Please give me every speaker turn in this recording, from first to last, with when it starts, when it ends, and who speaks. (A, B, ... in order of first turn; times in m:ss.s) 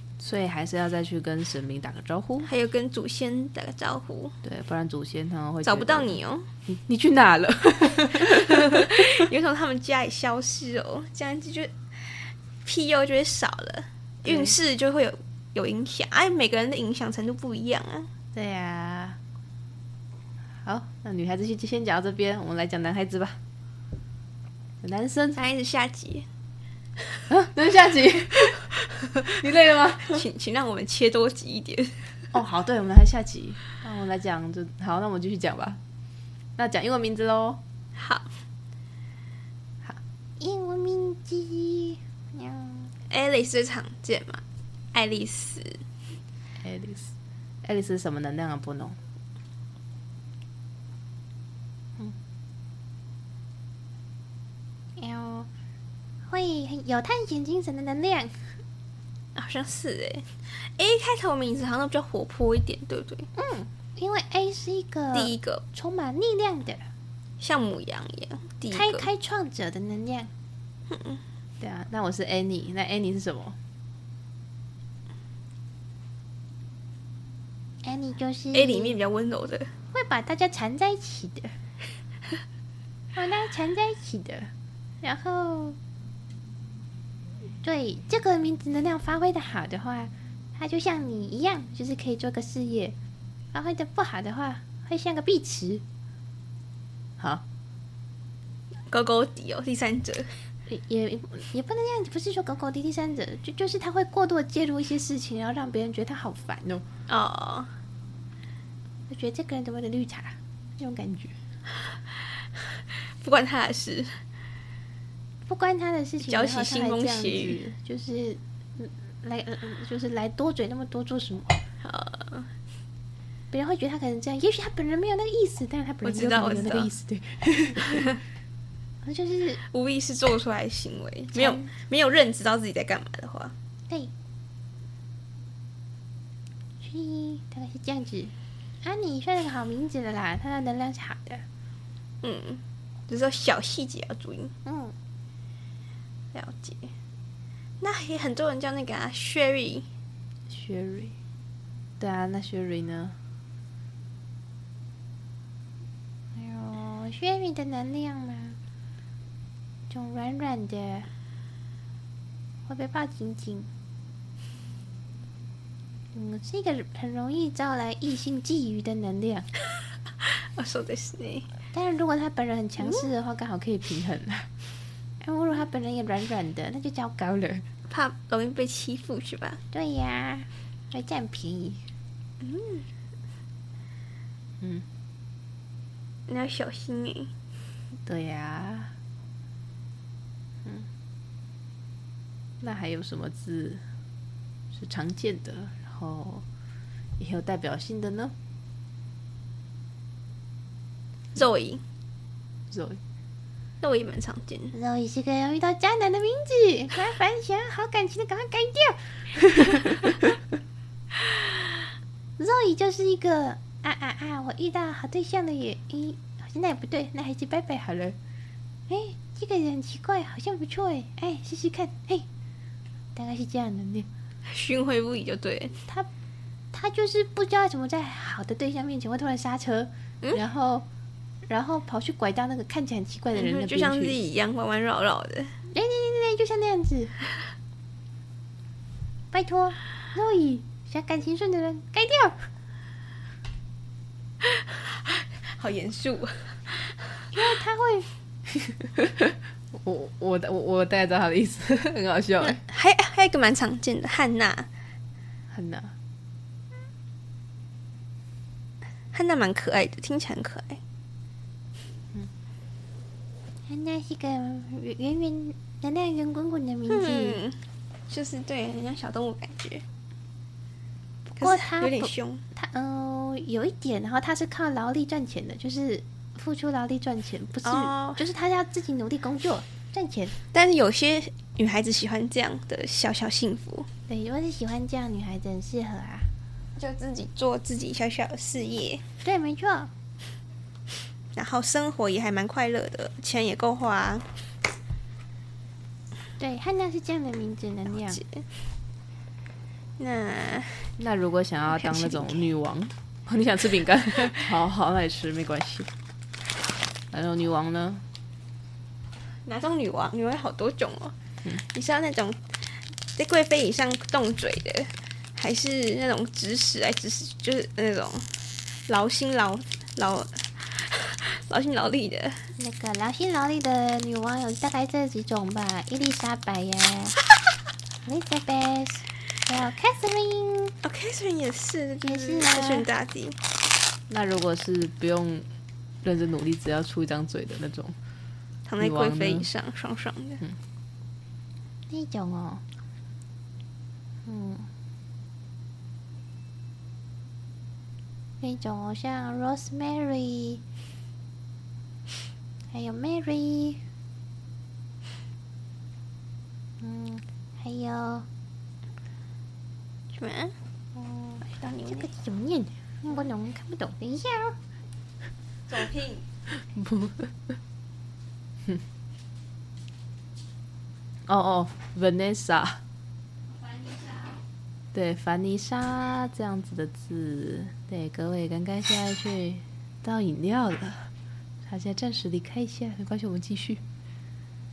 0:00.2-0:02.5 A
0:02.4-0:04.4 B
0:04.4-0:09.2 A
0:05.6-0:06.5 B
0:08.2-0:18.1 B
0:18.3-0:19.2 C
0:20.6-0:21.0 C
0:20.9-0:23.4 A
0:24.8-0:25.3 A
0:25.4-0:26.3 B
0:27.3-0:28.7 A
0:29.2-0:30.2 A
0:30.0-0:32.2 B
0:32.3-0:35.8 A
0:36.6-0:37.6 A
0:38.0-0:38.3 B
0:40.4-0:42.9 C
0:43.1-0:44.4 B
0:44.9-0:45.8 B
0:46.6-0:47.1 A
0:47.6-0:49.0 A
0:55.0-0:55.5 C
0:56.2-0:58.5 C
0:59.3-1:03.3 B
1:03.3-1:06.8 C
1:05.1-1:05.6 B
1:07.4-1:09.1 B
1:08.7-1:10.3 C
1:10.9-1:11.2 B
1:11.6-1:13.5 C
1:17.8-1:19.0 C
1:18.5-1:19.7 B
1:19.9-1:21.6 C
1:23.1-1:24.5 C
1:25.0-1:25.8 C
1:27.6-1:32.9 C
1:33.5-1:35.8 C
1:38.9-1:40.4 B
1:40.7-1:46.8 C
1:47.1-1:47.7 B
1:49.1-1:51.3 C
1:52.6-1:54.2 B
1:55.4-2:01.6 C
1:56.2-1:57.6 B
2:01.8-2:02.5 B
2:03.5-2:08.0 C
2:06.0-2:06.9 B
2:07.9-2:08.2 B
2:09.0-2:09.6 C
2:09.6-2:13.5 B
2:11.3-2:11.7 C
2:16.8-2:21.4 C
2:22.2-2:24.5 B
2:24.6-2:24.9 C
2:26.3-2:26.9 B
2:27.8-2:29.9 B
2:30.5-2:31.1 C
2:32.0-2:33.1 A
2:36.3-2:38.6 C
2:39.9-2:41.1 C
2:42.7-2:43.7 C
2:46.1-2:49.5 C
2:50.2-2:51.5 B
2:51.7-2:54.3 C
2:55.2-2:57.6 C
2:57.9-2:59.6 B
2:59.7-3:01.8 C
3:02.4-3:02.9 B
3:06.3-3:07.3 B
3:08.0-3:08.9 C
3:12.6-3:13.2 C
3:12.8-3:13.8 A
3:14.7-3:16.4 A
3:17.2-3:18.3 A
3:21.3-3:21.8 B
3:22.7-3:23.0 A
3:23.8-3:24.7 B
3:24.7-3:29.8 C
3:32.4-3:38.2 C
3:38.9-3:42.2 C
3:43.1-3:44.1 C
3:44.4-3:45.8 B
3:46.7-3:50.8 C
3:51.5-3:54.1 C
3:53.3-3:55.6 B
3:55.7-3:57.1 C
3:59.3-4:02.4 C
4:04.4-4:07.0 B
4:07.3-4:08.1 C
4:08.6-4:12.6 A
4:12.4-4:14.7 B
4:15.5-4:15.9 A
4:19.1-4:20.8 B
4:23.7-4:27.4 C
4:26.9-4:29.8 B
4:31.3-4:40.3 C
4:31.4-4:32.4 B
4:37.6-4:38.2 B
4:40.5-4:43.9 B
4:44.1-4:46.3 C
4:46.8-4:49.0 B
4:49.2-4:49.9 C
4:51.3-4:54.3 B
4:56.4-4:58.2 C
4:58.0-4:58.4 B
5:00.0-5:00.9 B
5:01.0-5:05.9 A
5:01.7-5:02.5 B
5:07.1-5:08.0 A
5:09.4-5:12.4 B
5:13.2-5:18.3 B
5:18.9-5:22.5 B
5:22.6-5:27.2 C
5:28.0-5:30.8 C
5:30.8-5:33.4 B
5:32.0-5:32.9 C
5:34.1-5:35.4 A
5:36.0-5:38.0 A
5:38.6-5:40.4 B
5:38.8-5:39.5 A
5:41.9-5:42.6 C
5:44.2-5:44.7 C
5:48.4-5:50.6 C
5:52.7-5:53.8 C
5:56.8-5:58.3 C
6:00.1-6:00.5 B
6:00.9-6:04.6 C
6:01.4-6:02.1 B
6:05.7-6:06.2 B
6:06.5-6:07.3 A
6:11.3-6:12.8 A
6:13.6-6:14.4 B
6:14.9-6:21.1 A
6:15.9-6:16.6 C
6:17.9-6:19.2 C
6:21.7-6:23.8 A
6:21.8-6:23.0 C